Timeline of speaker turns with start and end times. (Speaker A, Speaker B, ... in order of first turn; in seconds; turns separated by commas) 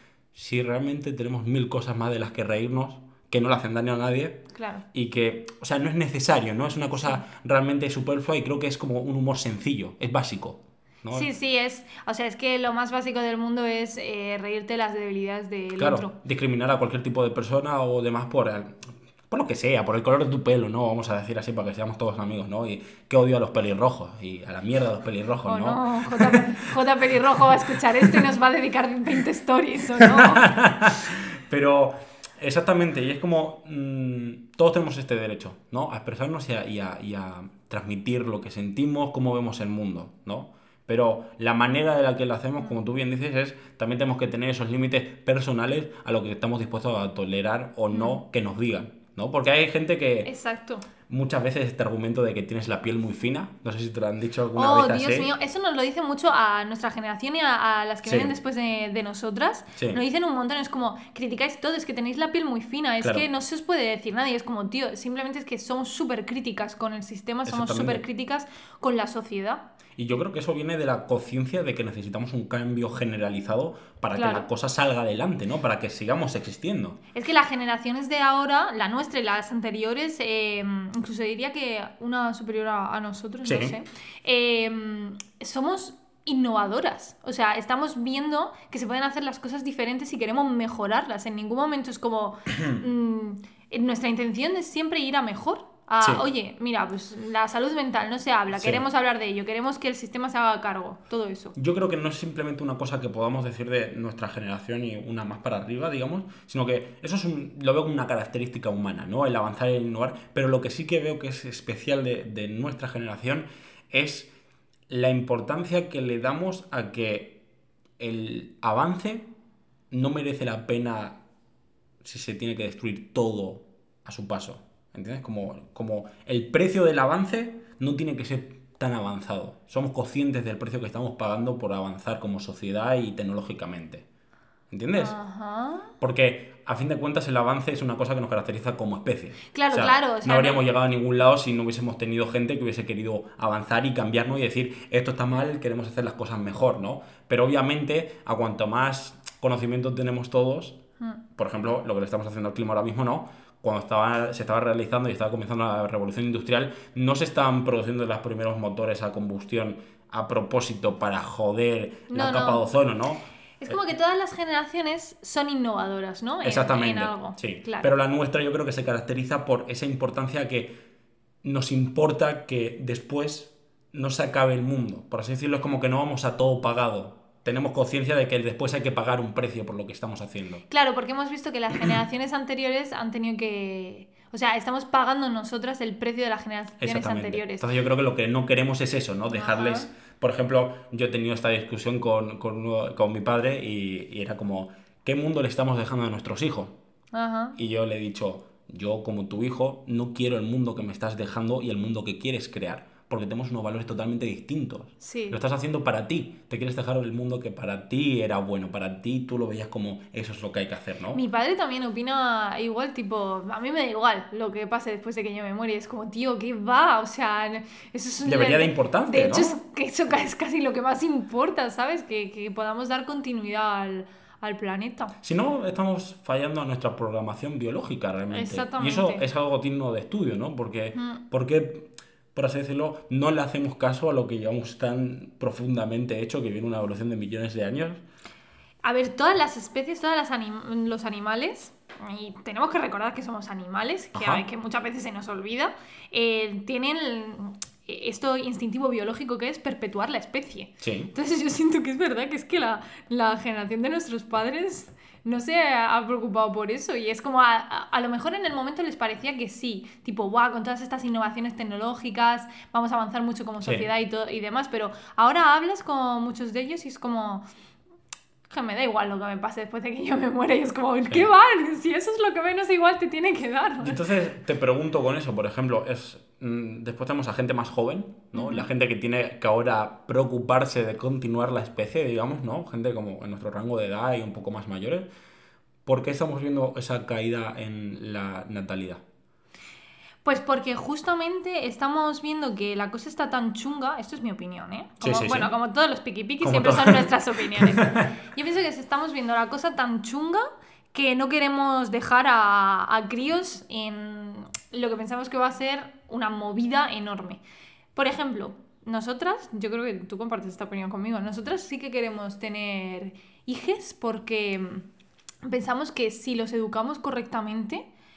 Speaker A: 0.3-4.4, Speaker B: 4.5-4.8, Speaker A: 4.9-11.3, Speaker B: 7.0-7.2, Speaker B: 11.1-16.1, Speaker A: 15.8-26.6, Speaker B: 25.4-30.4, Speaker A: 30.0-50.3, Speaker B: 47.9-48.2, Speaker B: 50.2-50.9, Speaker A: 51.1-55.3, Speaker B: 54.5-69.6, Speaker A: 58.0-58.3, Speaker A: 63.0-63.3, Speaker A: 67.5-68.0, Speaker A: 70.0-77.0, Speaker B: 74.1-74.5, Speaker B: 77.1-101.5, Speaker A: 83.4-83.7, Speaker A: 98.5-98.8, Speaker A: 101.5-114.3, Speaker A: 114.9-117.4, Speaker A: 118.0-119.3, Speaker A: 119.9-121.2, Speaker A: 122.0-134.0, Speaker A: 134.7-135.1, Speaker B: 134.9-135.9, Speaker A: 136.0-150.8, Speaker B: 139.5-140.6, Speaker A: 151.4-163.7, Speaker B: 162.1-162.6, Speaker B: 163.6-167.9, Speaker A: 166.4-170.7, Speaker A: 171.4-180.6, Speaker B: 180.7-187.7, Speaker A: 186.8-196.7, Speaker B: 189.3-189.9, Speaker B: 197.1-197.6, Speaker A: 197.6-211.2, Speaker B: 205.0-205.4, Speaker B: 211.1-225.1, Speaker A: 218.2-219.6, Speaker A: 225.2-238.0, Speaker B: 228.3-229.2, Speaker B: 230.9-231.2, Speaker B: 238.8-267.4, Speaker A: 244.1-244.4, Speaker A: 250.8-251.1, Speaker B: 268.5-274.0, Speaker A: 273.8-285.1, Speaker B: 278.3-278.7, Speaker A: 285.9-289.0, Speaker B: 290.2-300.4, Speaker A: 295.0-295.5, Speaker A: 296.4-298.1, Speaker B: 300.9-307.4, Speaker B: 307.9-314.8, Speaker B: 315.4-317.9